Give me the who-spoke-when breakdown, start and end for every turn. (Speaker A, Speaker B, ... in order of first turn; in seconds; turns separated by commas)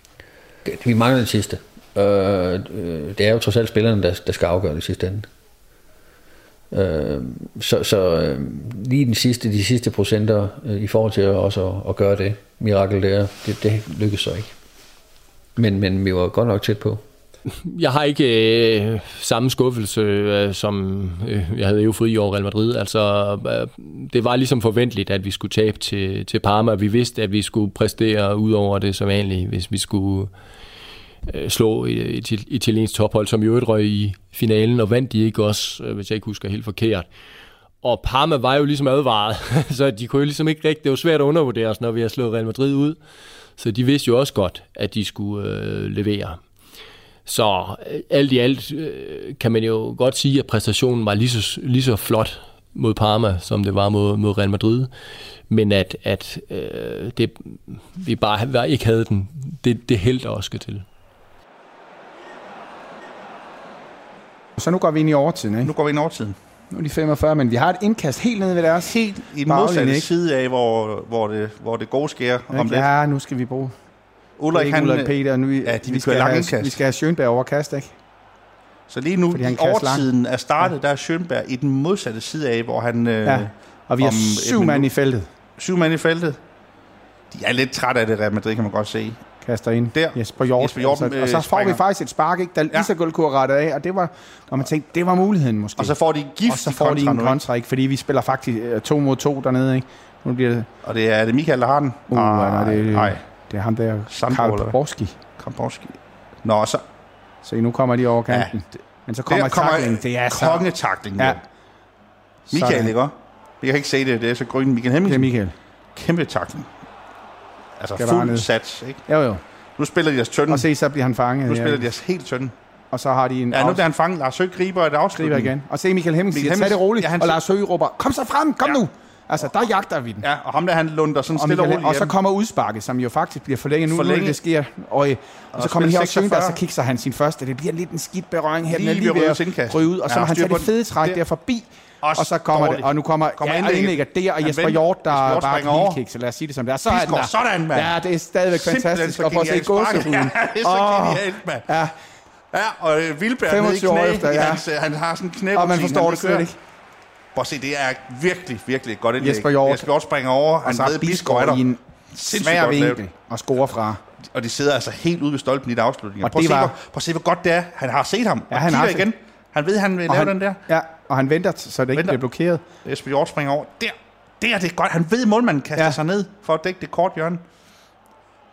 Speaker A: 0.7-5.3, Speaker A: 6.7-14.5, Speaker A: 15.6-17.0, Speaker B: 17.5-30.3, Speaker B: 31.3-37.1, Speaker B: 37.8-43.0, Speaker B: 43.6-46.4, Speaker B: 47.3-54.9, Speaker B: 55.5-60.9, Speaker C: 64.6-65.7, Speaker D: 65.7-66.4, Speaker C: 66.7-68.9, Speaker D: 68.9-72.9, Speaker C: 69.5-70.1, Speaker C: 72.5-73.8, Speaker D: 74.4-75.1, Speaker C: 74.5-77.9, Speaker D: 75.7-76.8, Speaker D: 78.9-84.9, Speaker C: 79.3-80.0, Speaker C: 83.2-85.3, Speaker D: 85.6-86.4, Speaker D: 87.3-89.3, Speaker C: 89.4-100.7, Speaker D: 89.9-91.8, Speaker D: 95.8-97.4, Speaker D: 100.8-103.2, Speaker C: 102.1-105.2, Speaker D: 104.1-104.8, Speaker D: 105.3-106.8, Speaker C: 107.4-111.4, Speaker D: 109.3-111.4, Speaker D: 112.5-115.3, Speaker C: 112.5-112.9, Speaker C: 115.1-115.5, Speaker D: 116.0-116.7, Speaker D: 117.8-119.0, Speaker C: 118.0-118.5, Speaker C: 119.1-119.4, Speaker D: 119.8-120.7, Speaker C: 120.5-121.9, Speaker D: 121.5-122.5, Speaker C: 122.9-123.9, Speaker D: 123.5-125.5, Speaker C: 125.2-130.2, Speaker D: 126.3-127.4, Speaker D: 130.2-132.1, Speaker C: 131.3-151.9, Speaker D: 133.9-134.4, Speaker D: 135.6-136.6, Speaker D: 138.7-141.2, Speaker D: 142.0-146.0, Speaker D: 146.9-147.9, Speaker D: 148.6-151.7, Speaker D: 152.5-156.5, Speaker C: 153.5-154.7, Speaker C: 155.6-156.6, Speaker D: 157.3-161.6, Speaker C: 159.2-159.9, Speaker C: 160.7-164.0, Speaker D: 162.2-163.0, Speaker D: 164.3-170.7, Speaker C: 166.2-166.8, Speaker C: 168.5-169.1, Speaker C: 170.1-172.6, Speaker D: 172.8-177.4